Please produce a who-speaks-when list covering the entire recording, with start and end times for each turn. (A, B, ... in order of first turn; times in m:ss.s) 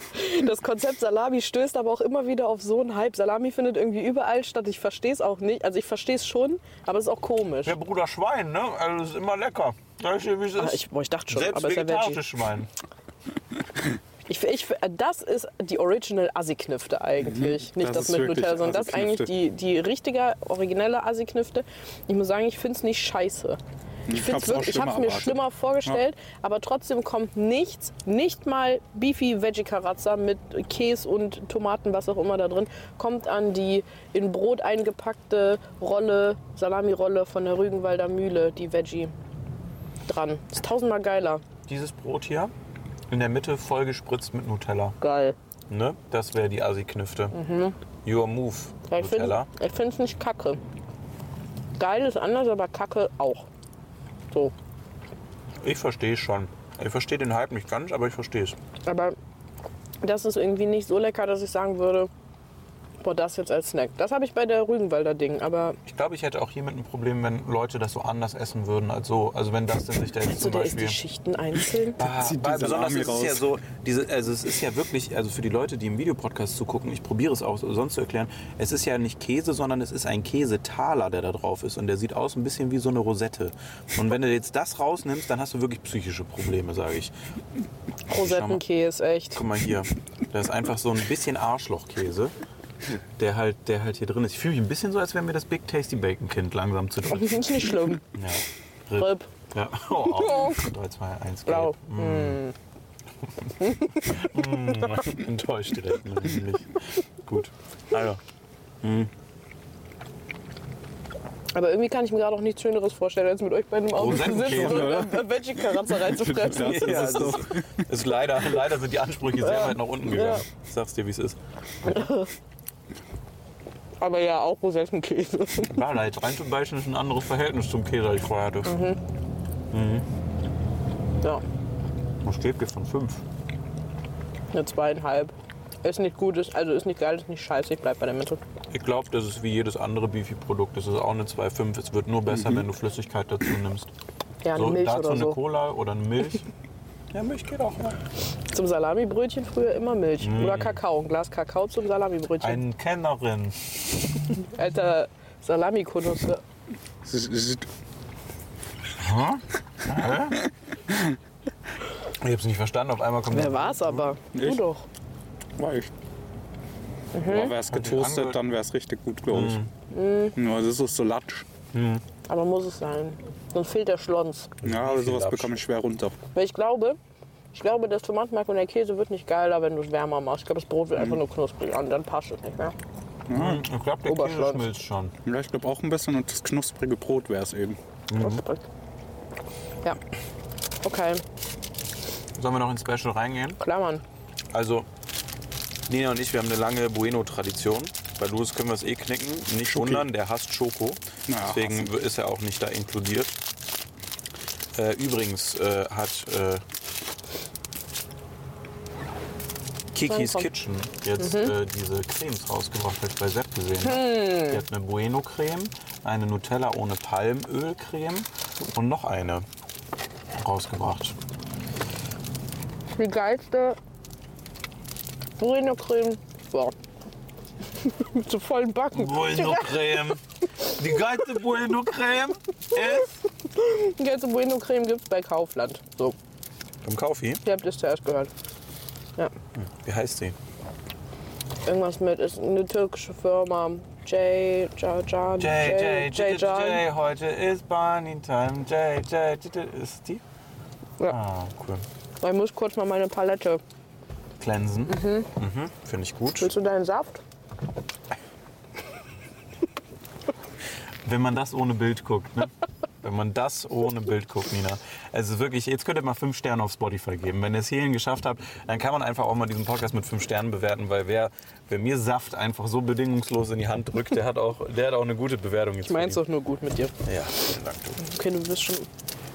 0:00.1-0:07.7 A
0:07.6-0:12.7 B
0:10.6-0:12.2 A
0:14.3-0:39.1 A
0:17.2-0:19.3 C
0:24.1-0:26.0 C
0:40.1-0:41.4 A
0:41.7-0:42.5 B
0:43.1-0:45.0 B
0:45.0-0:45.4 A
0:45.7-0:47.4 B
0:47.3-0:47.8 A
0:48.0-0:49.5 B
0:48.9-0:50.6 A
0:51.8-0:53.5 A
0:55.6-0:58.6 B
0:58.9-0:59.2 A
1:00.0-1:02.1 A
1:03.0-1:05.8 A
1:05.9-1:11.0 B
1:10.3-1:12.0 A
1:12.0-1:27.1 B
1:12.0-1:13.4 C
1:28.1-1:28.6 B
1:28.1-1:29.4 A
1:29.4-1:32.3 B
1:33.2-1:42.4 B
1:37.1-1:38.0 A
1:39.0-1:39.3 A
1:40.0-1:40.6 A
1:41.5-1:42.5 A
1:43.6-1:44.1 A
1:44.0-1:48.2 B
1:48.8-1:49.1 B
1:51.6-1:57.3 A
1:54.0-1:55.1 B
1:54.3-1:55.2 C
1:56.0-1:57.9 C
1:56.4-2:02.0 B
1:59.4-2:00.4 A
2:01.8-2:02.3 A
2:04.0-2:05.8 A
2:05.7-2:08.7 B
2:08.6-2:09.0 A
2:09.7-2:10.1 B
2:12.2-2:13.2 B
2:14.5-2:18.4 A
2:18.7-2:23.9 B
2:22.3-2:22.6 C
2:24.4-2:25.4 A
2:24.5-2:26.5 B
2:27.1-2:28.0 B
2:28.5-2:32.6 A
2:30.2-2:30.8 B
2:32.4-2:33.8 B
2:34.5-2:36.4 A
2:37.0-2:37.7 C
2:39.0-2:40.4 B
2:42.2-2:44.1 B
2:43.3-2:44.9 A
2:44.3-2:44.6 C
2:45.6-2:45.9 C
2:47.1-2:47.6 A
2:47.2-2:49.6 C
2:47.5-2:48.4 B
2:49.3-2:49.7 B
2:49.9-2:50.4 A
2:50.4-2:51.5 C
2:51.7-2:52.0 B
2:52.3-2:54.5 A
2:54.6-2:55.6 B
2:54.6-2:56.2 C
2:56.3-2:57.0 A
2:57.5-3:02.8 A
3:03.3-3:03.6 C
3:03.3-3:05.1 B
3:04.1-3:04.7 A
3:05.2-3:07.8 C
3:08.1-3:08.4 B
3:08.2-3:08.6 A
3:10.8-3:11.2 A
3:12.4-3:13.6 B
3:13.6-3:14.0 A
3:14.5-3:14.9 B
3:15.9-3:23.4 B
3:19.7-3:20.0 C
3:21.3-3:21.9 C
3:24.7-3:26.6 B
3:29.9-3:39.5 B
3:30.0-3:30.5 A
3:31.2-3:31.5 A
3:33.8-3:34.6 A
3:40.4-3:41.2 B
3:43.0-3:43.8 A
3:45.4-3:46.7 A
3:47.8-3:49.7 A
3:48.9-3:53.1 B
3:53.6-3:56.2 A
3:56.8-3:57.4 B
3:57.4-3:58.3 A
3:59.6-4:00.4 B
4:01.7-4:06.8 A
4:05.4-4:10.2 B
4:11.1-4:11.8 B
4:12.2-4:13.6 A
4:14.4-4:16.5 B
4:14.9-4:15.3 A
4:16.3-4:17.2 A
4:21.0-4:36.2 B
4:35.8-4:37.0 A
4:37.0-4:38.0 B
4:38.0-4:38.9 A